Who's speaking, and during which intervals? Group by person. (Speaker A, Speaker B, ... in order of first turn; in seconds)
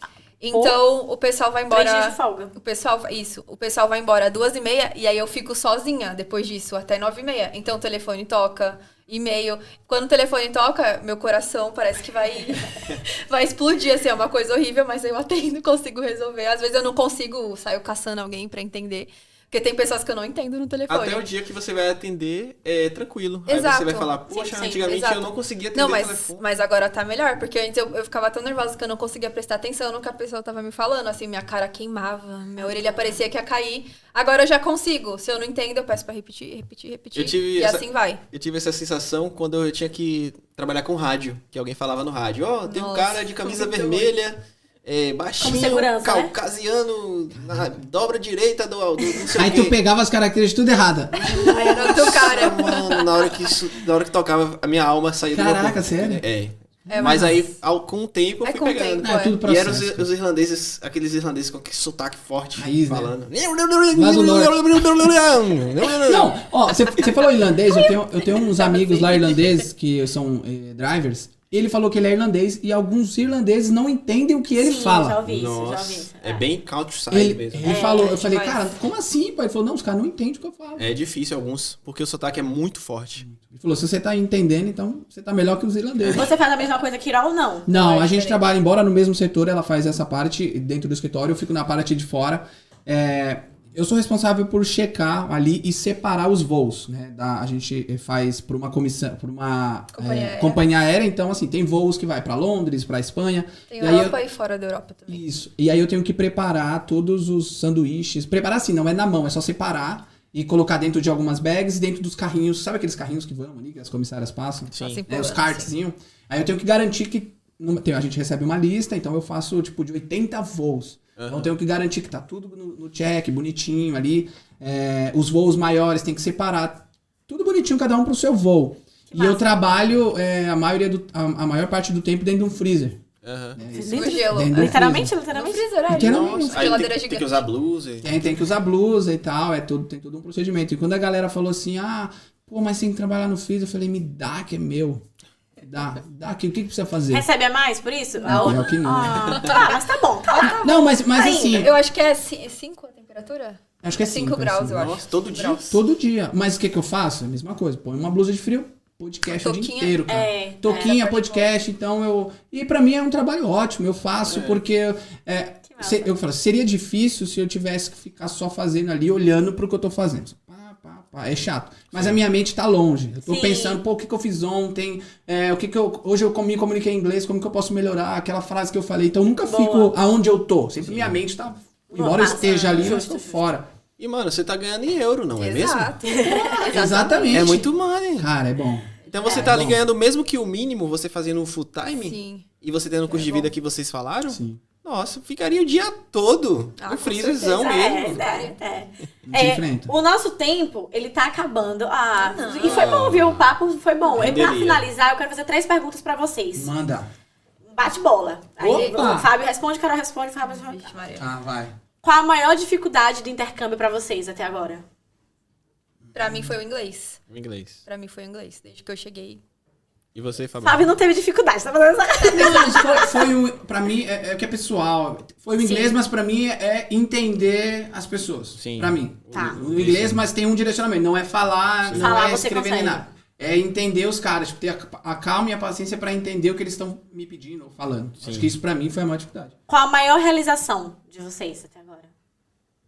Speaker A: 0.4-21.2, 23.5-38.2, 42.6-44.1, 51.5-53.3, 56.9-57.5, 58.4-59.4, 77.8-78.6, 87.7-88.4, 99.9-100.6, 103.7-105.2, 114.8-115.7, 133.9-134.8, 135.3-137.5, 148.2-148.7, 149.3-149.8, 151.5-155.8, 159.3-160.0, 160.7-161.5, 185.4-187.6, 189.0-189.4, 191.9-192.4, 193.1-193.5, 196.8-198.6, 202.2-202.9, 208.7-209.1, 210.4-211.3, 216.1-217.2, 217.8-219.4
Speaker B: 1.7-2.5, 45.4-46.3, 74.5-76.4, 77.7-78.2, 86.1-87.8, 129.1-129.4, 133.7-135.7, 147.1-151.7, 160.1-161.0, 165.7-166.1, 173.2-173.8, 179.4-179.9, 181.9-183.5, 186.0-186.7, 189.2-189.5, 197.5-206.7, 207.7-210.9, 212.0-214.8, 220.6-223.1, 225.6-225.9, 229.3-229.6, 231.9-233.1, 239.7-242.1
Speaker C: 20.9-26.4, 37.1-49.7, 51.1-66.3, 75.2-77.7, 80.8-83.3, 86.0-86.2, 114.7-115.0, 121.2-121.5, 133.2-133.6, 135.9-138.2, 154.7-155.8, 164.3-164.6, 171.9-172.2, 180.8-181.2, 184.0-186.0, 187.3-188.3, 189.1-198.2, 202.6-203.5, 204.1-204.8, 217.3-217.8, 220.1-220.9, 228.6-230.2, 231.8-232.1, 238.2-238.5
Speaker D: 47.4-47.8, 49.3-52.4, 55.3-56.2, 57.0-57.3, 59.0-60.1, 62.5-63.1, 63.9-64.6, 66.0-75.2, 77.1-80.9, 83.2-86.3, 87.7-104.2, 105.1-133.0, 133.6-135.1, 135.9-136.8, 138.0-145.0, 145.6-147.2, 148.2-149.5, 150.6-151.7, 153.8-155.0, 155.6-183.7, 186.7-189.8, 194.3-194.6, 199.2-199.9, 206.5-207.1, 208.6-209.3, 211.2-211.7, 216.0-216.5, 222.2-239.5